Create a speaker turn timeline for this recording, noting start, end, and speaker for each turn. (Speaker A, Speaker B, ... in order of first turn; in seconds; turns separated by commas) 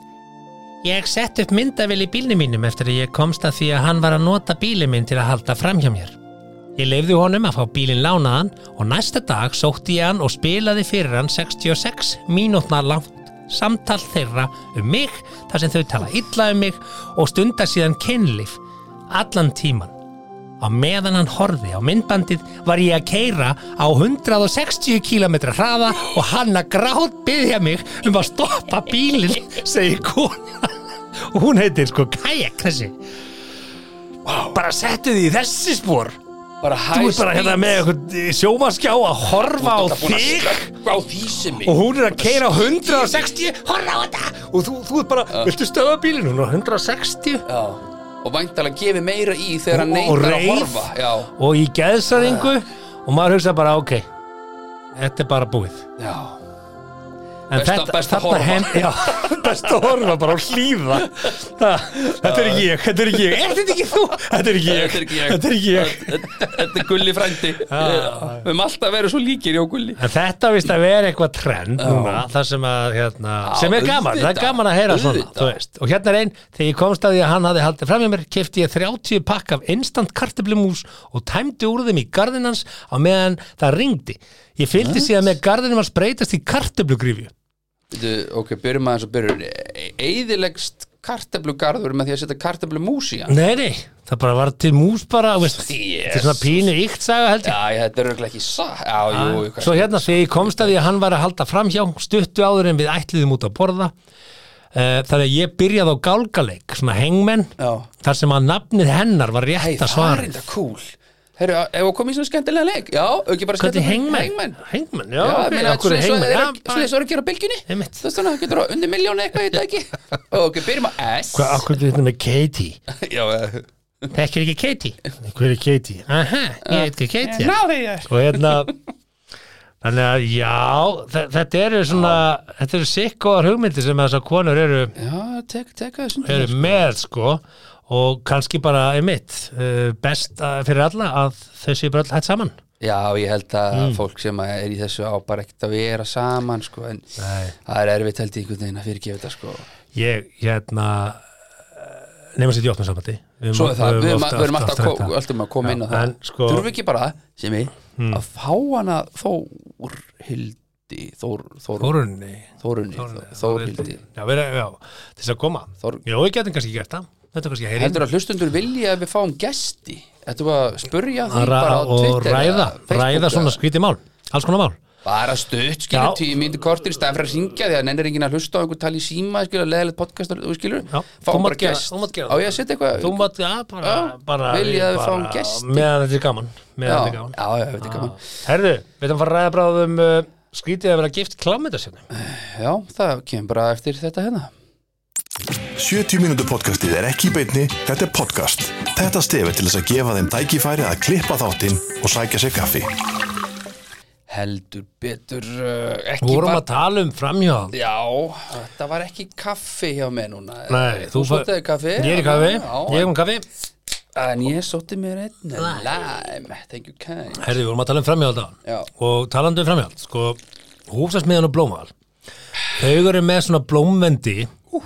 Speaker A: 0.8-6.2, Speaker A: 6.8-19.9, Speaker A: 20.6-33.0, Speaker B: 34.2-34.6, Speaker A: 34.5-36.2, Speaker B: 36.6-37.9, Speaker A: 36.9-40.7, Speaker B: 39.4-43.4, Speaker A: 41.6-47.5, Speaker B: 47.5-51.3, Speaker A: 49.7-54.1, Speaker B: 52.1-52.5, Speaker A: 55.0-55.9, Speaker B: 56.0-56.4, Speaker A: 57.5-66.7, Speaker B: 57.5-59.8, Speaker B: 62.0-62.7, Speaker B: 64.6-70.0, Speaker A: 67.6-68.4, Speaker A: 70.0-87.3, Speaker B: 71.8-72.2, Speaker B: 73.5-75.6, Speaker B: 84.8-85.1, Speaker B: 87.9-93.3, Speaker A: 93.3-97.5, Speaker B: 95.5-96.7, Speaker B: 97.4-100.8, Speaker A: 99.1-103.9, Speaker A: 104.7-110.3, Speaker B: 107.6-107.9, Speaker B: 109.6-114.6, Speaker A: 113.6-116.9, Speaker B: 115.2-121.7, Speaker A: 117.7-118.0, Speaker A: 121.3-122.8, Speaker B: 122.9-123.7, Speaker A: 124.1-128.7, Speaker B: 126.7-128.6, Speaker A: 129.8-134.9, Speaker B: 131.9-132.2, Speaker B: 135.0-136.8, Speaker A: 136.2-142.6, Speaker B: 142.8-149.7, Speaker A: 143.7-144.0, Speaker A: 147.2-147.6, Speaker A: 149.9-156.7, Speaker B: 153.5-161.9, Speaker A: 158.0-158.2, Speaker A: 161.8-168.0, Speaker B: 162.6-164.0, Speaker B: 167.8-173.6, Speaker A: 171.3-174.8, Speaker B: 175.1-183.2, Speaker A: 175.9-176.3, Speaker A: 180.9-192.0, Speaker B: 183.8-185.9, Speaker B: 186.9-188.2, Speaker B: 192.1-194.5, Speaker C: 195.8-202.9, Speaker B: 204.3-206.6, Speaker A: 206.2-207.8, Speaker B: 207.7-213.1, Speaker A: 210.7-213.4, Speaker B: 214.2-217.5, Speaker A: 215.6-216.0, Speaker A: 217.4-221.9, Speaker B: 218.7-218.9, Speaker A: 222.7-224.6